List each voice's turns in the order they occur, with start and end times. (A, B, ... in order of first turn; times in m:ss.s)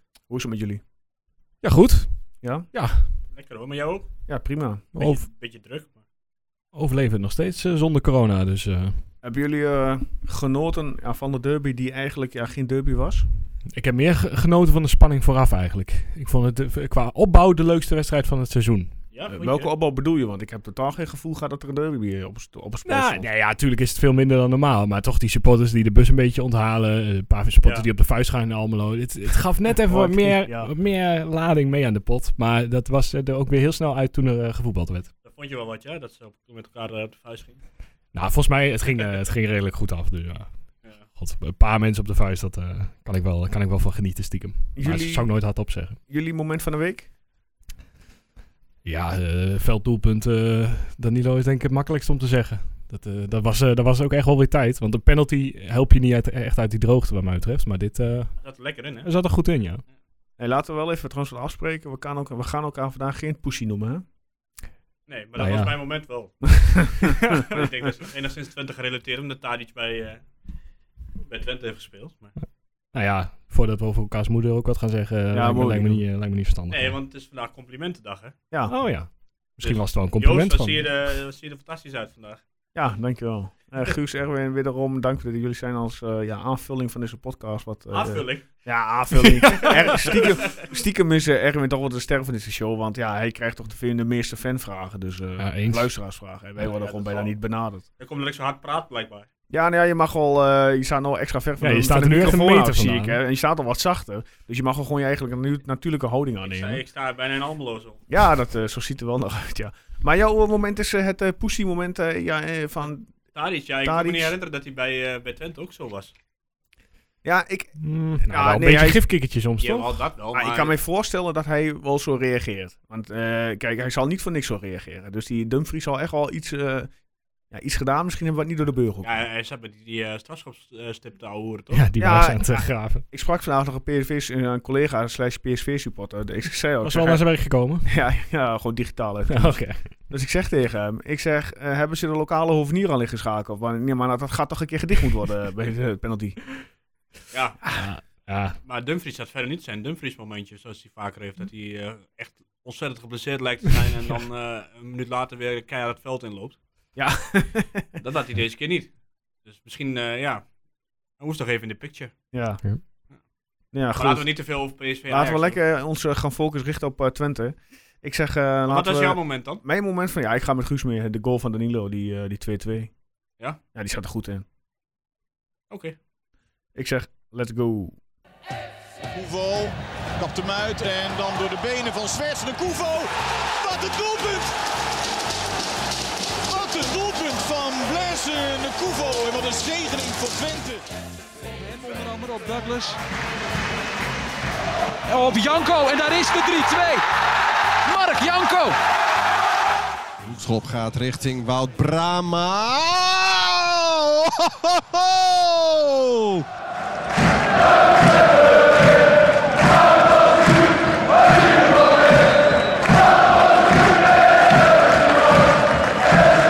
0:00.3-0:00.8 A
0:01.6-0:03.1 B
0:02.4-0:02.7 A
0:03.3-0:04.1 C
0:04.3-0:04.9 A
0:05.0-0:05.3 B
0:05.0-0:06.0 C
0:06.7-0:09.0 B
0:09.2-0:13.3 A
0:13.7-0:19.0 B
0:19.1-0:19.7 C
0:19.3-0:23.3 A
0:22.8-0:35.1 B
0:29.7-0:30.7 A
0:35.2-0:37.6 C
0:38.1-0:40.5 B
0:41.1-0:46.0 B
0:44.8-0:45.3 A
0:46.1-0:47.1 A
0:48.8-0:58.4 B
0:58.4-0:59.1 C
0:59.0-0:59.8 B
1:00.4-1:04.0 A
1:05.1-1:10.2 C
1:05.4-1:05.8 B
1:06.6-1:07.6 A
1:11.2-1:12.4 C
1:12.9-1:17.0 B
1:15.3-1:16.0 A
1:16.7-1:18.4 C
1:18.7-1:20.9 B
1:19.6-1:22.4 C
1:22.7-1:37.8 A
1:27.9-1:28.5 C
1:29.2-1:29.8 B
1:29.5-1:30.7 C
1:35.4-1:35.9 B
1:36.7-1:37.3 C
1:38.0-1:39.3 C
1:39.5-1:46.8 A
1:41.6-1:43.2 B
1:46.4-1:48.1 C
1:48.1-1:53.1 A
1:53.3-1:56.1 C
1:53.8-1:54.4 A
1:57.2-1:59.0 A
1:57.8-2:00.0 B
1:59.6-2:00.7 C
2:00.3-2:06.9 A
2:07.5-2:09.1 A
2:09.0-2:11.8 C
2:11.7-2:13.0 B
2:12.0-2:17.3 A
2:16.8-2:17.9 B
2:17.8-2:26.5 A
2:19.3-2:19.9 B
2:27.3-2:27.7 C
2:27.7-2:28.6 B
2:28.6-2:36.6 C
2:37.0-2:38.0 A
2:38.0-2:40.5 C
2:41.2-2:42.2 C
2:42.3-2:42.7 A
2:43.7-2:44.3 A
2:43.9-2:45.6 C
2:45.1-2:52.9 A
2:48.7-2:49.6 C
2:53.7-2:54.4 A
2:55.7-2:56.0 C
2:56.8-2:58.0 A
2:59.1-3:04.5 D
3:06.5-3:10.8 D
3:11.6-3:13.0 E
3:15.1-3:17.0 E
3:17.9-3:18.8 E
3:20.2-3:26.4 F